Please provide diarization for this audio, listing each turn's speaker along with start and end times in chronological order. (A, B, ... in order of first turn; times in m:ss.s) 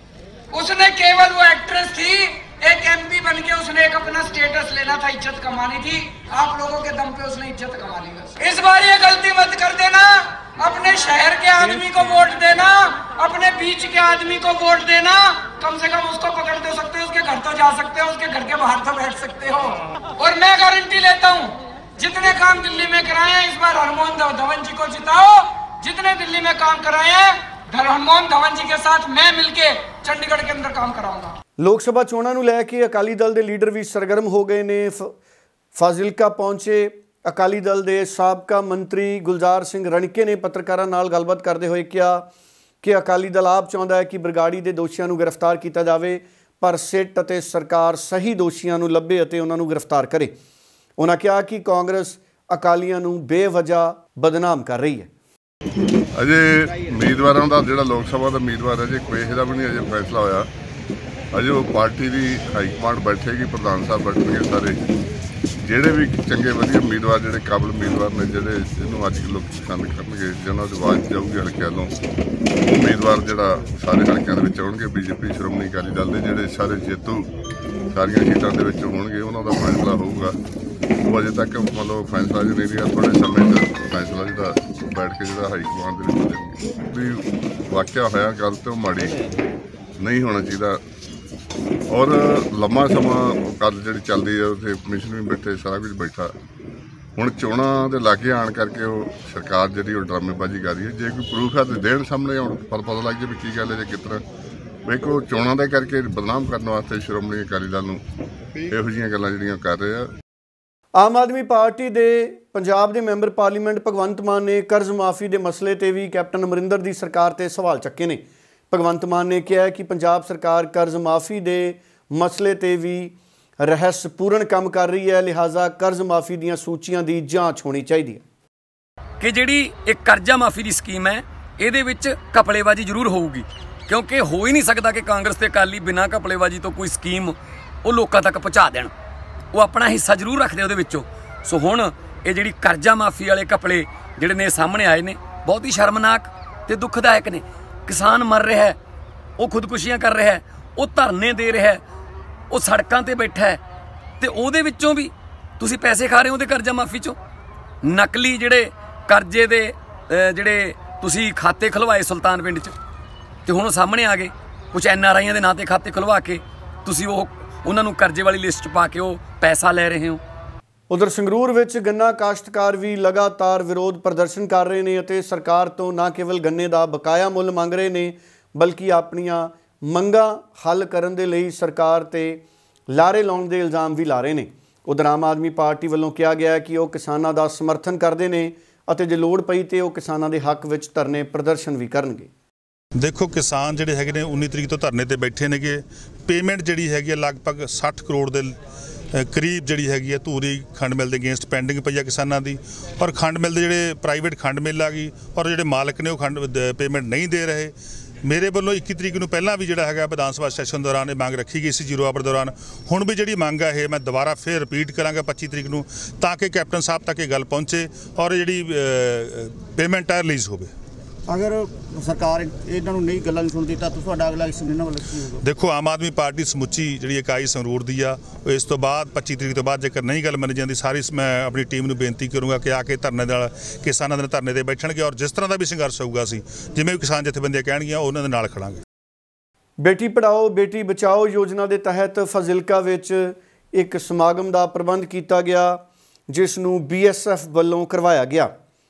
0:00.5-0:31.4 A
0:31.6-0:35.2 B
0:35.8-0:42.3 B
0:42.8-0:50.4 B
0:51.0-0:55.1 B
0:56.2-1:00.5 C
1:01.3-1:04.8 C
1:05.6-1:11.9 C
1:12.6-1:17.3 C
1:17.9-1:20.4 C
1:21.0-1:29.3 C
1:30.0-1:30.8 C
1:31.9-1:36.3 C
1:37.2-1:44.2 C
1:44.9-1:48.0 C
1:48.7-1:50.1 C
1:51.0-2:08.2 B
2:09.2-2:18.9 D
2:19.5-2:28.8 D
2:29.4-2:31.8 D
2:32.5-2:33.6 D
2:34.2-2:37.2 D
2:37.8-2:42.8 D
2:43.4-2:50.2 D
2:50.9-3:12.3 B
3:13.0-3:18.6 E
3:19.1-3:27.7 E
3:28.2-3:40.7 E
3:41.3-3:45.4 F
3:45.4-3:58.8 E
3:59.8-4:08.5 B